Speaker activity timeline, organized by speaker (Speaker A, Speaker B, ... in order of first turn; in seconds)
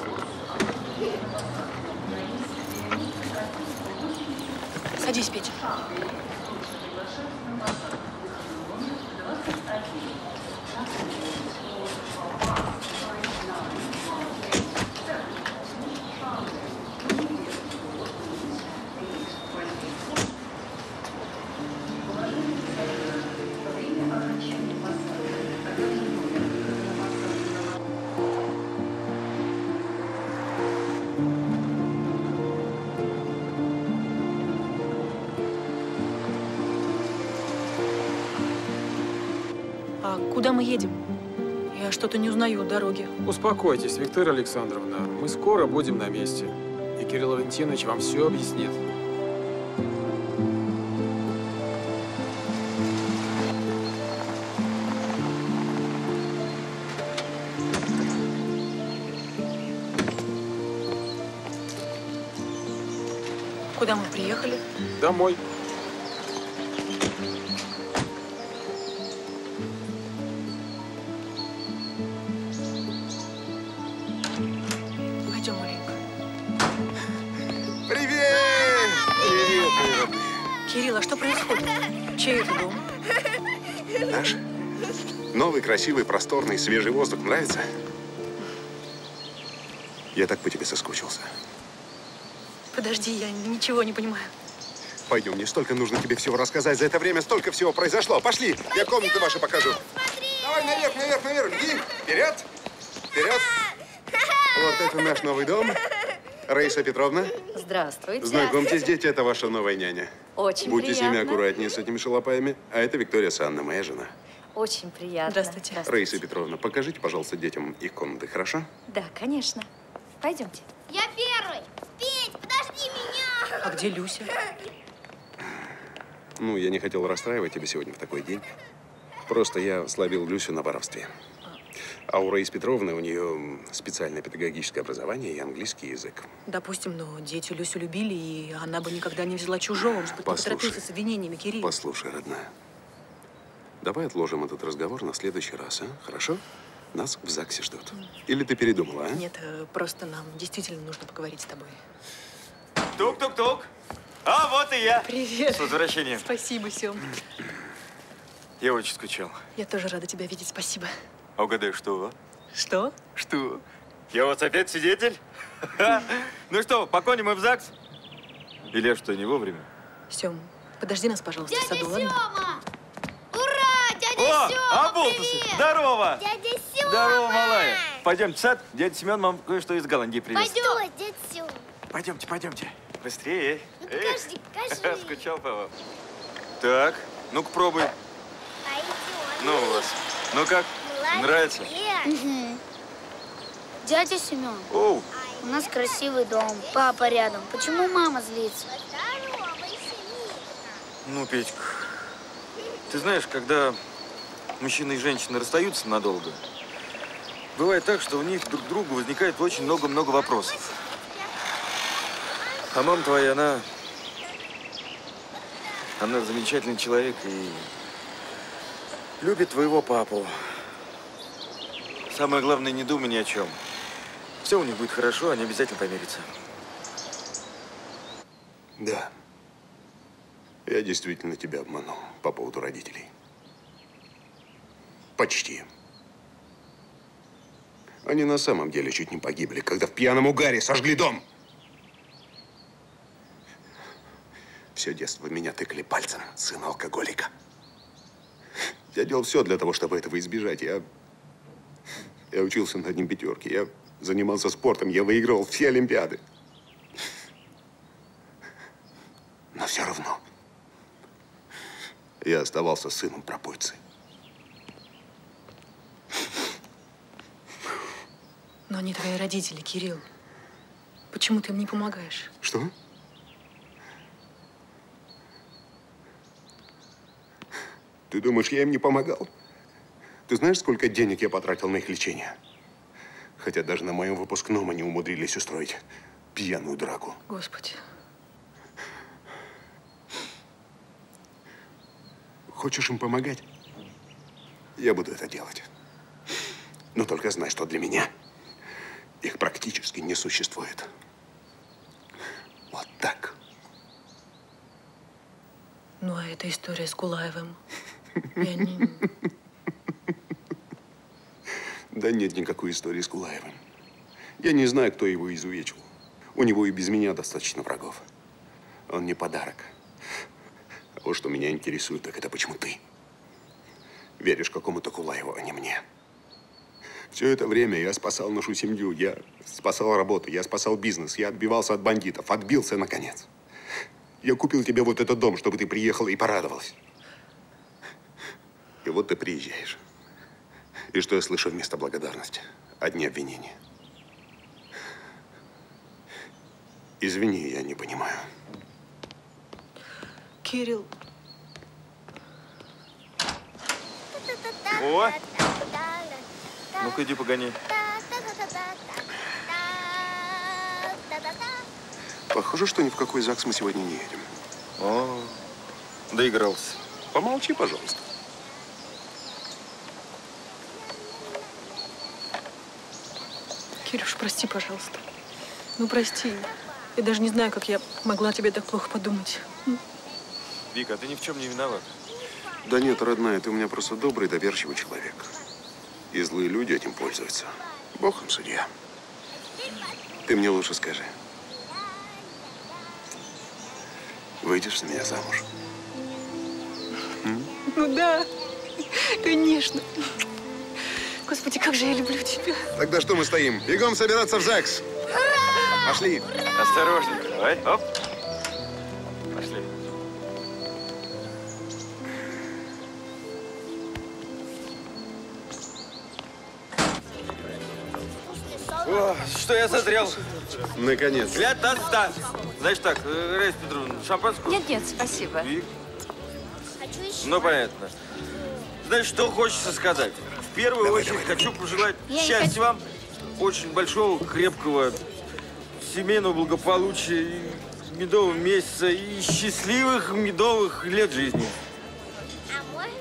Speaker A: 5.0-5.6, 40.0-41.0, 41.7-43.1, 63.8-64.6, 75.2-76.0, 80.7-82.8, 92.7-94.3, 115.3-115.8, 123.6-124.3, 136.4-141.7, 149.1-151.8, 155.0-157.1, 159.6-160.9, 162.5-163.1, 170.1-172.2, 268.7-270.0, 271.1-272.3, 287.3-287.8, 306.0-307.6, 308.4-309.1, 350.4-350.9, 373.8-375.0, 375.8-379.8, 397.7-398.3, 398.8-399.9, 401.3-402.7
Speaker B: 43.2-48.8, 65.0-65.4
Speaker C: 77.9-80.4, 84.0-84.4, 85.3-87.6, 90.1-91.3, 95.1-99.8, 100.4-102.4, 103.1-103.6, 104.5-105.8, 106.5-107.3, 108.2-114.1, 115.8-118.7, 126.4-128.5, 129.3-131.1, 132.1-136.3, 140.1-140.8, 141.6-142.5, 143.8-146.4, 146.9-149.2, 228.8-229.1, 230.7-233.1, 235.2-235.6, 238.0-241.2, 244.7-247.3, 248.9-250.8, 252.3-256.2, 259.5-260.2, 262.2-263.8, 272.4-272.7, 278.1-279.3, 280.3-282.4, 283.4-285.8, 286.3-287.2, 292.5-293.4, 294.8-295.7, 296.9-298.1, 299.2-300.9, 302.7-303.4, 311.9-313.6, 314.4-318.0, 318.9-319.7, 321.0-322.8, 324.2-325.8, 327.1-333.3, 334.2-336.7, 338.8-339.8, 340.9-343.6, 347.0-348.2, 362.3-364.2, 367.1-368.0, 382.6-385.3, 386.1-388.7, 390.2-391.1, 394.4-395.4, 397.2-397.5, 402.7-404.8, 405.8-406.3, 420.7-421.5, 430.8-431.8
Speaker D: 107.5-108.7, 110.3-111.4, 114.5-116.1, 118.9-119.7, 120.2-120.6, 424.5-425.4
Speaker E: 120.9-123.4, 171.5-172.6, 173.3-175.6, 176.2-177.8, 180.3-181.7, 183.8-185.2, 188.7-189.8, 190.9-191.2, 191.8-192.6, 193.8-194.7, 195.4-198.7, 426.8-427.1, 432.1-432.6
Speaker F: 153.0-153.7, 154.2-156.2, 158.6-159.4, 161.4-162.1, 163.2-163.4, 164.1-165.2, 165.7-167.7, 168.7-169.7, 174.1-176.2, 176.8-180.8, 181.9-185.7, 186.6-187.9, 189.4-191.7, 194.7-195.1, 201.0-202.1, 202.9-203.8, 204.6-206.4, 207.6-210.8, 212.7-213.7, 216.0-217.7, 219.2-220.7, 222.1-223.6, 224.4-226.3, 354.7-355.2, 356.8-357.6, 364.8-365.4, 366.1-366.8, 380.7-381.9, 406.5-407.8, 409.3-409.7, 418.8-420.3, 421.3-425.7, 427.2-427.9, 428.8-432.8, 433.4-435.0, 435.8-441.5